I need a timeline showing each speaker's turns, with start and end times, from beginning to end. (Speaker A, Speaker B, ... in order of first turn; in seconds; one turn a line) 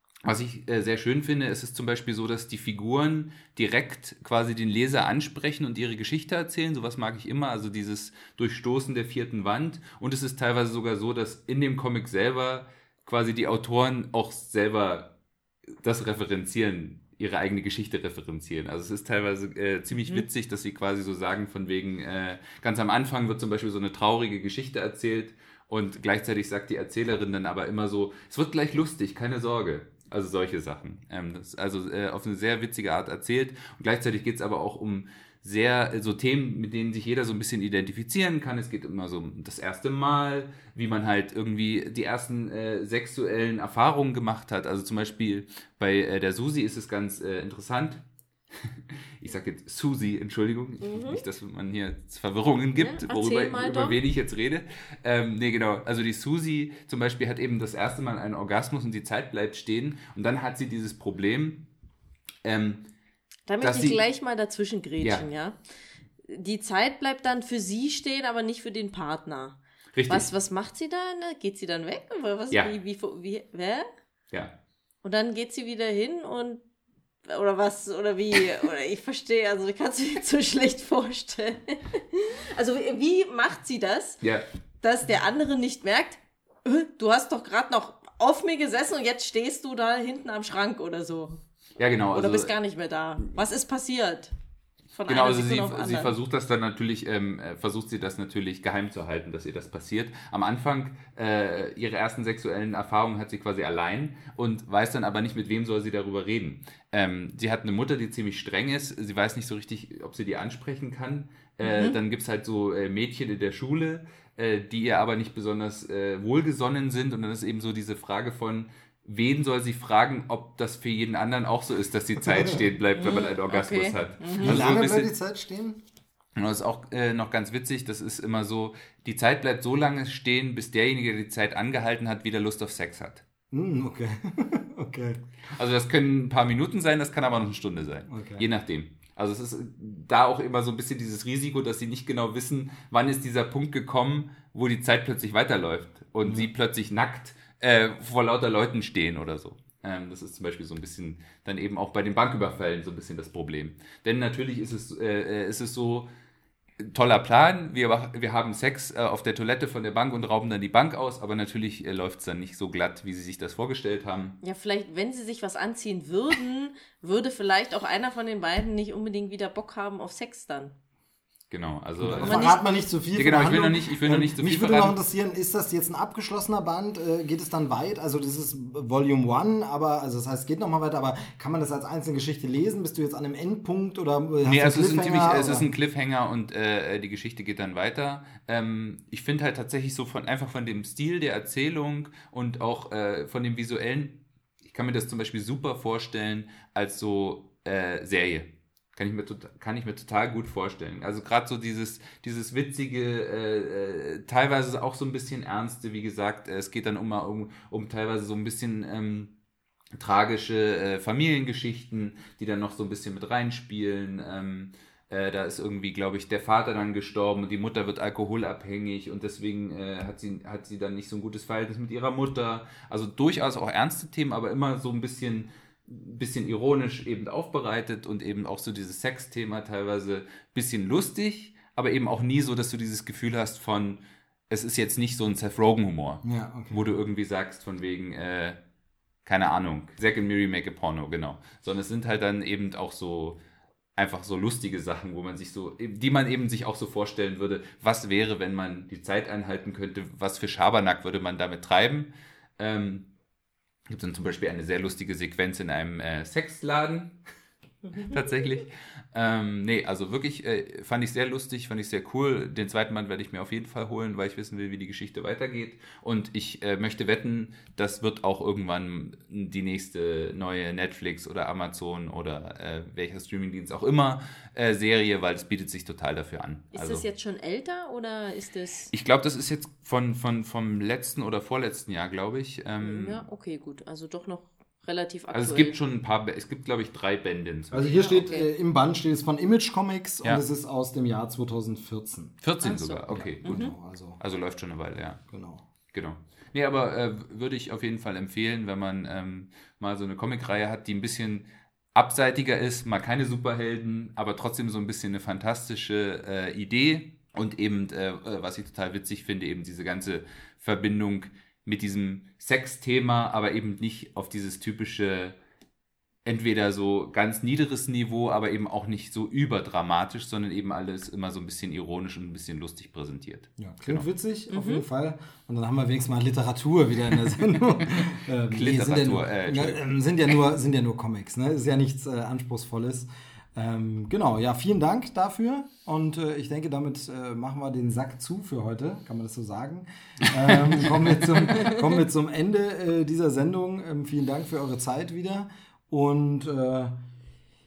Speaker A: 0.2-15.1
Speaker A: 15.8-48.0
Speaker B: 19.9-20.2
Speaker A: 48.5-61.7
Speaker B: 50.8-51.2
Speaker B: 52.8-54.0
Speaker A: 62.4-62.9
Speaker B: 63.5-65.6
Speaker A: 63.6-64.0
Speaker A: 65.0-65.3
Speaker B: 66.2-73.9
Speaker A: 70.0-70.3
Speaker B: 75.0-76.6
Speaker B: 77.3-84.2
Speaker B: 84.8-91.4
Speaker A: 91.8-92.5
Speaker B: 92.1-94.3
Speaker B: 94.9-96.1
Speaker A: 95.1-125.1
Speaker B: 111.6-112.0
Speaker C: 122.3-122.6
Speaker B: 123.0-124.6
Speaker C: 124.4-125.8
Speaker A: 126.4-133.2
Speaker C: 133.5-135.2
Speaker A: 135.6-156.1
Speaker C: 138.1-138.5
Speaker A: 156.8-164.4
Speaker B: 164.4-170.7
Speaker A: 171.5-172.5
Speaker C: 172.0-185.7
Speaker B: 172.2-172.8
Speaker A: 173.2-175.0
Speaker A: 184.4-209.3
Speaker A: 209.9-238.6
Speaker C: 236.2-236.8
Speaker A: 239.2-243.4
Speaker A: 244.0-253.1
Speaker A: 253.9-257.2
Speaker B: 257.9-258.2
Speaker A: 258.1-277.1
Speaker B: 276.7-278.9
Speaker A: 278.9-283.2
Speaker B: 282.8-285.8
Speaker A: 285.3-288.3
Speaker C: 287.7-292.4
Speaker B: 287.8-288.5
Speaker A: 292.4-295.2
Speaker B: 292.6-293.7
Speaker C: 293.1-294.2
Speaker C: 295.3-295.6
Speaker A: 295.9-315.4
Speaker A: 316.2-324.1
Speaker C: 323.6-346.9
Speaker B: 324.5-324.9
Speaker A: 328.0-329.8
Speaker A: 340.5-341.0
Speaker B: 341.6-342.0